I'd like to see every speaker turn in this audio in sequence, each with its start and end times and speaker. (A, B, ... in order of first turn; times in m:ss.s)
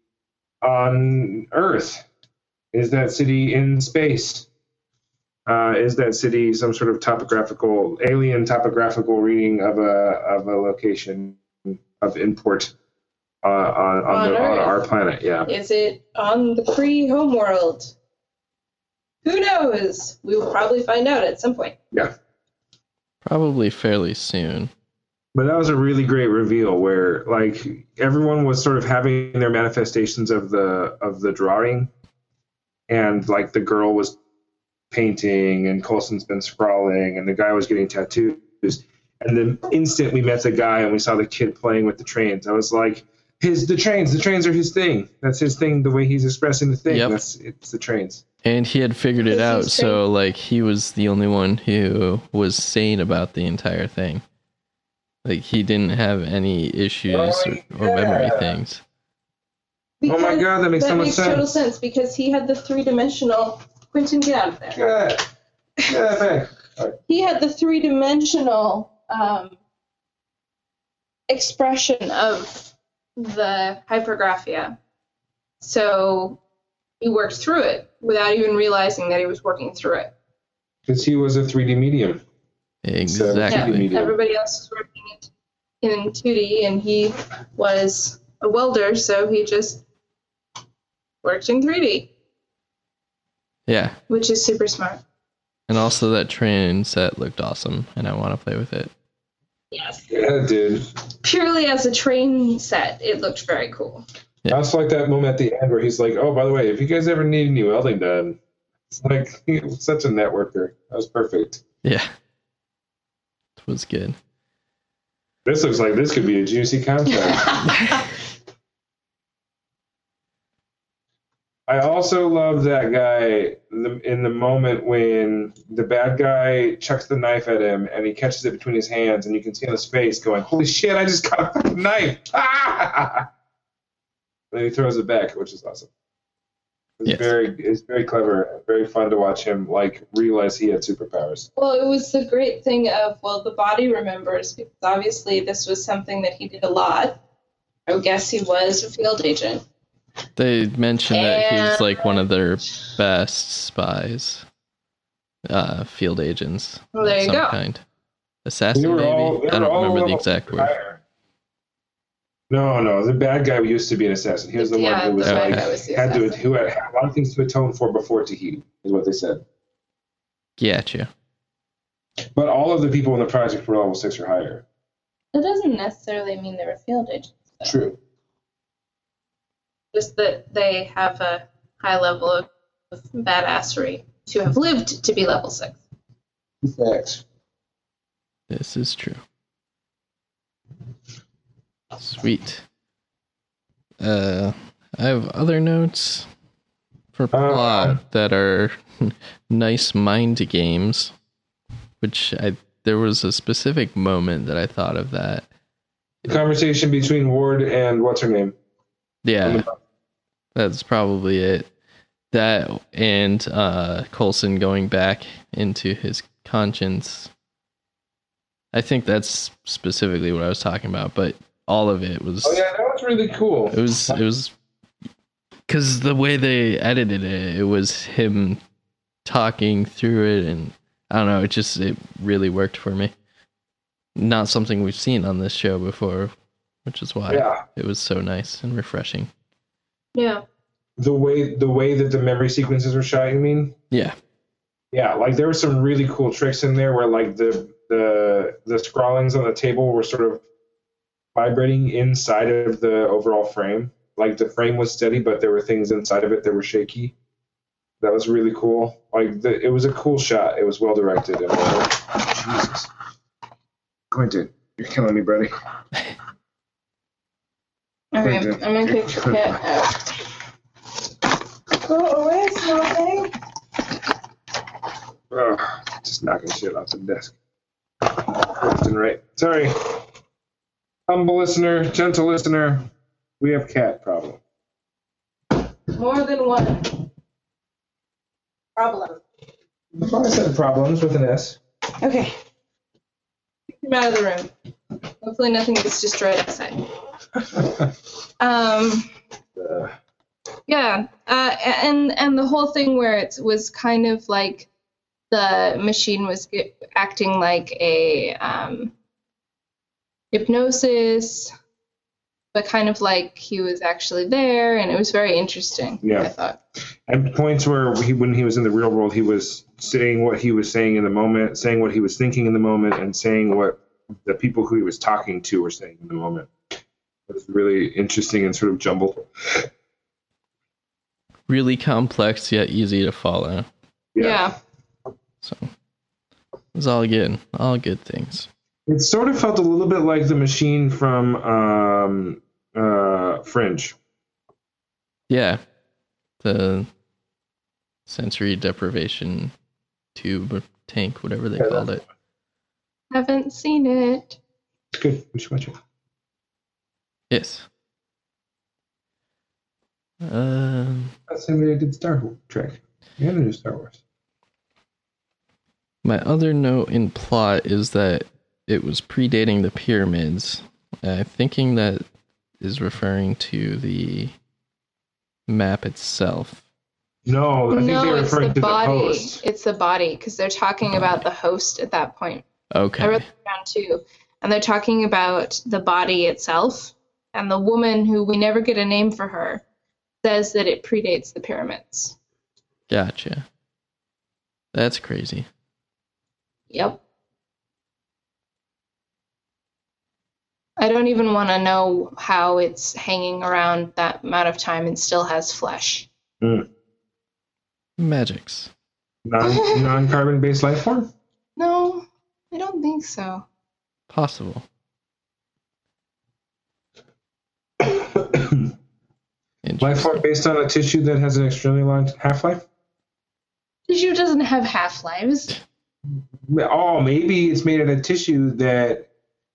0:00.6-0:02.0 A
0:02.7-0:04.5 A
0:05.4-0:12.7 A
0:13.4-0:15.5 A
0:14.1-0:14.8 B
0:15.4-0:17.9 B
0:19.2-0:21.7 B
0:23.2-0:24.7 C
0:25.3-0:31.9 A
0:32.9-0:34.2 A
0:34.9-0:48.2 A
0:46.9-0:47.2 C
0:48.4-0:54.2 C
0:49.3-0:50.0 B
0:55.2-0:58.8 C
0:57.1-0:58.5 A
1:00.0-1:04.8 B
1:00.0-1:01.5 A
1:04.7-1:05.2 A
1:05.9-1:07.0 A
1:07.1-1:09.6 B
1:11.3-1:14.8 B
1:15.6-1:16.4 B
1:17.0-1:20.1 B
1:20.8-1:22.2 A
1:22.8-1:23.9 C
1:23.1-1:24.1 A
1:23.5-1:25.3 B
1:25.8-1:29.8 B
1:31.2-1:32.1 B
1:33.7-1:34.0 C
1:34.1-1:35.0 B
1:35.7-1:38.9 C
1:39.7-1:40.0 B
1:40.1-1:40.8 A
1:41.2-1:44.0 B
1:44.5-1:48.4 A
1:48.9-1:51.6 A
1:51.8-1:52.1 C
1:53.6-1:54.2 C
1:55.4-1:57.6 A
2:01.7-2:13.2 A
2:14.5-2:15.9 A
2:17.0-2:21.5 A
2:17.0-2:17.3 C
2:21.6-2:27.2 B
2:27.9-2:29.6 B
2:30.4-2:34.4 C
2:31.1-2:32.1 B
2:35.5-2:37.8 C
2:36.9-2:37.6 B
2:38.4-2:40.7 C
2:38.7-2:41.0 A
2:42.5-2:49.4 A
2:44.6-2:46.4 B
2:45.2-2:45.6 C
2:50.6-2:51.1 C
2:52.3-2:54.6 A
2:55.3-2:57.7 B
2:57.6-2:58.0 A
2:59.9-3:05.8 B
3:06.6-3:07.2 A
3:08.5-3:09.2 C
3:12.0-3:12.6 C
3:14.0-3:16.3 C
3:17.1-3:21.1 C
3:17.3-3:18.0 A
3:22.0-3:25.4 C
3:26.2-3:28.5 A
3:29.2-3:29.6 C
3:29.4-3:29.7 A
3:30.5-3:31.7 C
3:32.3-3:37.3 C
3:38.7-3:42.6 C
3:42.4-3:44.2 A
3:43.7-3:44.5 C
3:45.7-3:48.6 C
3:49.2-3:53.1 C
3:54.2-3:56.3 C
3:56.8-3:59.3 C
3:57.3-3:57.6 A
4:00.1-4:00.4 B
4:01.0-4:03.7 A
4:04.9-4:10.4 A
4:11.3-4:17.1 A
4:18.0-4:22.9 A
4:24.1-4:25.5 A
4:28.1-4:30.2 B
4:28.2-4:29.6 A
4:31.7-4:33.3 B
4:35.3-4:37.4 A
4:38.0-4:40.0 A
4:41.1-4:42.9 A
4:43.4-4:44.4 A
4:45.9-4:47.0 B
4:48.8-4:49.2 B
4:49.9-4:51.6 A
4:52.0-4:52.4 B
4:53.8-4:54.5 B
4:55.2-4:56.8 B
4:58.4-4:59.1 B
4:59.6-4:59.9 A
5:00.7-5:04.7 B
5:05.3-5:08.9 B
5:10.3-5:11.5 B
5:12.5-5:16.6 B
5:16.0-5:16.3 A
5:17.1-5:26.5 A
5:27.3-5:29.7 A
5:31.5-5:33.7 C
5:34.1-5:34.4 A
5:34.2-5:34.5 B
5:35.4-5:35.7 C
5:36.7-5:38.5 C
5:38.9-5:43.9 A
5:45.3-5:45.6 C
5:46.4-5:46.9 C
5:48.1-5:49.5 C
5:50.1-5:52.0 C
5:51.6-5:52.0 A
5:53.1-5:54.4 B
5:54.9-5:55.8 A
5:57.3-5:57.6 C
6:00.2-6:01.1 C
6:01.3-6:04.0 A
6:06.0-6:12.0 C
6:12.6-6:14.3 C
6:15.5-6:16.6 C
6:17.2-6:19.4 A
6:17.7-6:22.4 B
6:22.7-6:23.2 C
6:23.0-6:29.6 B
6:30.2-6:32.2 B
6:32.9-6:33.4 C
6:34.7-6:35.5 C
6:36.7-6:37.0 B
6:40.8-6:46.1 B
6:46.4-6:46.7 A
6:48.0-6:48.7 C
6:49.2-6:51.1 A
6:49.4-6:49.8 B
6:51.6-6:53.4 B
6:54.1-6:54.6 C
6:57.8-6:58.7 A
6:59.6-7:00.2 C
6:59.8-7:02.6 A
7:03.9-7:05.5 B
7:06.5-7:09.1 A